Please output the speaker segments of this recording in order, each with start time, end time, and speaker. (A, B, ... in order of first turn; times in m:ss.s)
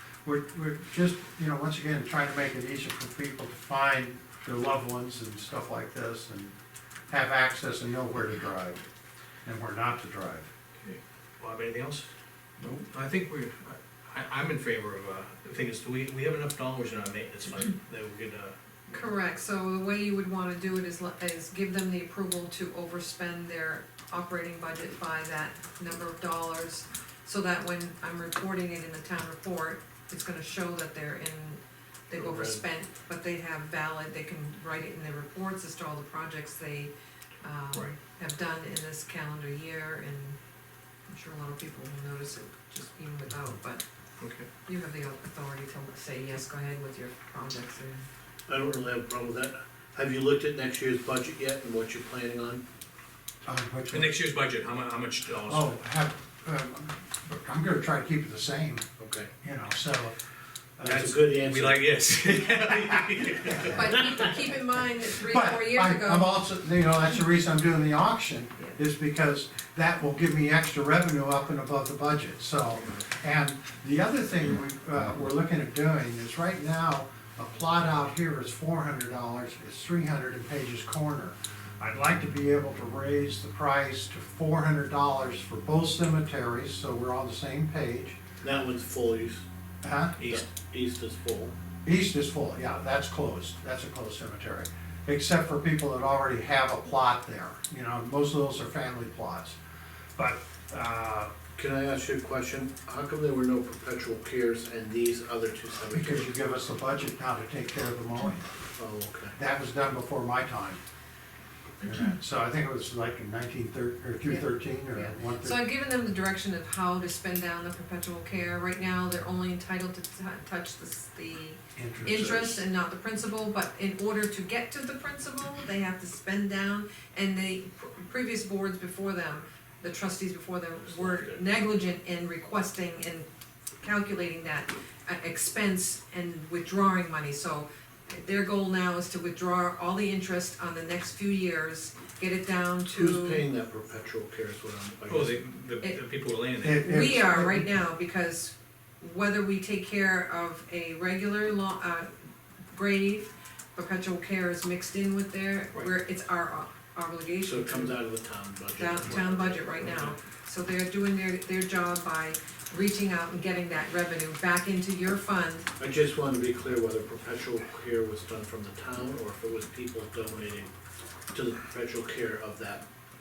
0:00.2-0:06.5 A
0:07.1-0:08.8 A
0:09.4-0:10.5 A
0:10.8-0:12.1 B
0:12.6-0:19.0 B
0:18.9-0:40.4 C
0:32.2-0:32.6 D
0:41.1-0:43.8 C
0:44.2-0:44.5 B
0:44.7-0:48.0 C
0:48.5-0:52.6 D
0:53.5-0:54.2 A
0:53.9-0:55.7 B
0:55.5-0:58.8 A
0:59.0-0:59.3 D
0:59.4-1:00.1 A
1:00.8-1:01.1 A
1:00.8-1:01.8 D
1:01.3-1:03.7 B
1:03.4-1:03.8 A
1:03.7-1:06.3 C
1:03.8-1:04.3 D
1:05.3-1:28.2 A
1:28.4-1:29.4 D
1:29.8-1:30.4 A
1:30.2-1:31.5 D
1:31.8-1:39.6 A
1:40.2-1:41.3 A
1:41.6-1:46.4 D
1:45.9-1:48.5 A
1:48.8-1:49.4 D
1:49.4-1:50.8 A
1:51.8-1:55.7 A
1:54.3-2:13.3 C
2:01.8-2:02.5 A
2:02.1-2:02.6 D
2:11.0-2:11.4 D
2:13.8-2:23.4 C
2:22.9-2:25.4 D
2:25.1-2:26.9 B
2:26.6-2:27.7 A
2:26.8-2:32.1 C
2:32.7-2:38.0 C
2:37.4-2:40.2 D
2:38.8-2:45.7 C
2:45.8-2:50.7 D
2:51.3-2:52.8 D